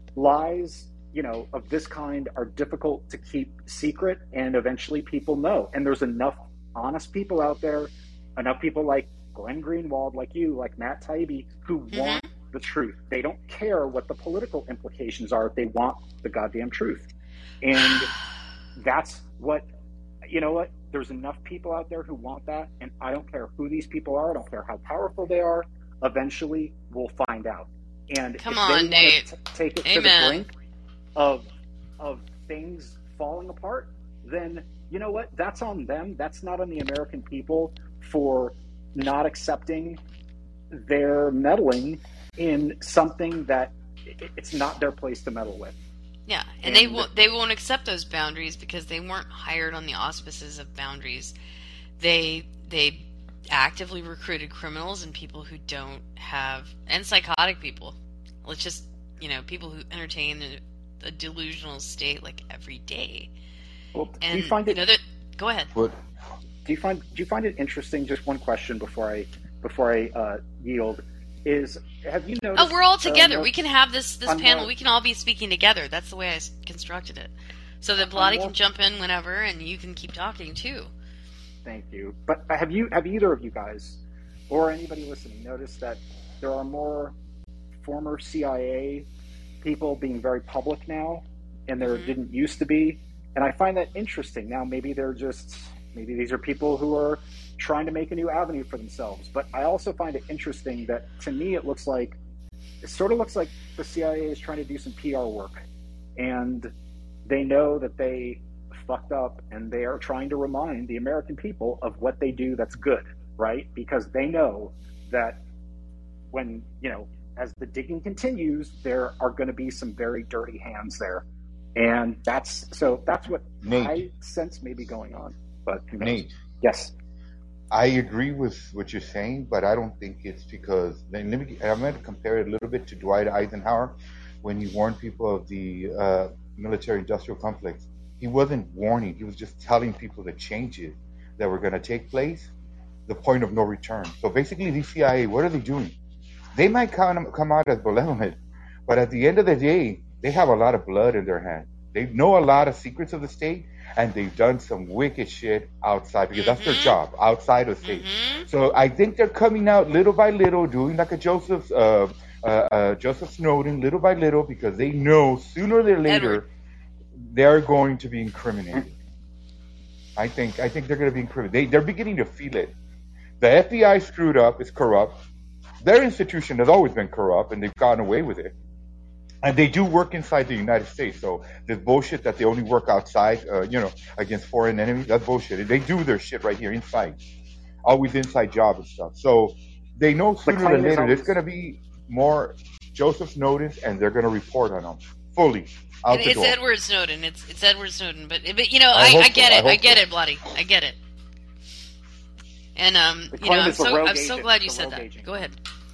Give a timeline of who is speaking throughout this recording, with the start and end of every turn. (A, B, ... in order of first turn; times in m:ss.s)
0:00.2-0:17.1 A
0:11.9-0:12.3 B
0:17.6-0:18.1 A
0:18.8-0:19.6 A
0:20.3-0:30.5 A
0:28.4-0:29.3 B
0:29.8-0:30.4 B
0:31.2-0:31.5 A
0:32.0-0:40.0 A
0:40.7-0:45.8 A
0:46.3-0:51.4 B
0:46.6-0:47.1 A
0:52.0-1:03.3 B
1:03.9-1:04.8 A
1:04.2-1:05.7 B
1:06.6-1:13.5 A
1:12.6-1:20.9 B
1:14.3-1:14.7 A
1:18.0-1:18.6 A
1:21.6-1:27.2 A
1:27.8-1:29.1 A
1:29.6-1:42.2 A
1:31.8-1:32.2 B
1:42.8-1:45.7 A
1:46.2-1:46.7 A
1:47.3-1:55.4 A
1:56.3-2:01.2 A
2:01.8-2:06.9 A
2:03.6-2:04.0 C
2:06.0-2:06.3 C
2:07.7-2:22.5 C
2:23.1-2:26.0 C
2:26.6-2:46.5 C
2:36.3-2:37.0 B
2:37.8-2:38.5 B
2:46.1-2:46.4 B
2:47.2-2:48.9 C
2:50.2-2:52.8 C
2:53.4-2:55.2 C
2:55.8-2:58.6 C
2:59.4-3:07.2 C
3:07.9-3:16.6 C
3:10.5-3:11.4 A
3:16.1-3:21.0 B
3:18.9-3:20.0 C
3:22.8-3:25.5 B
3:23.3-3:25.6 A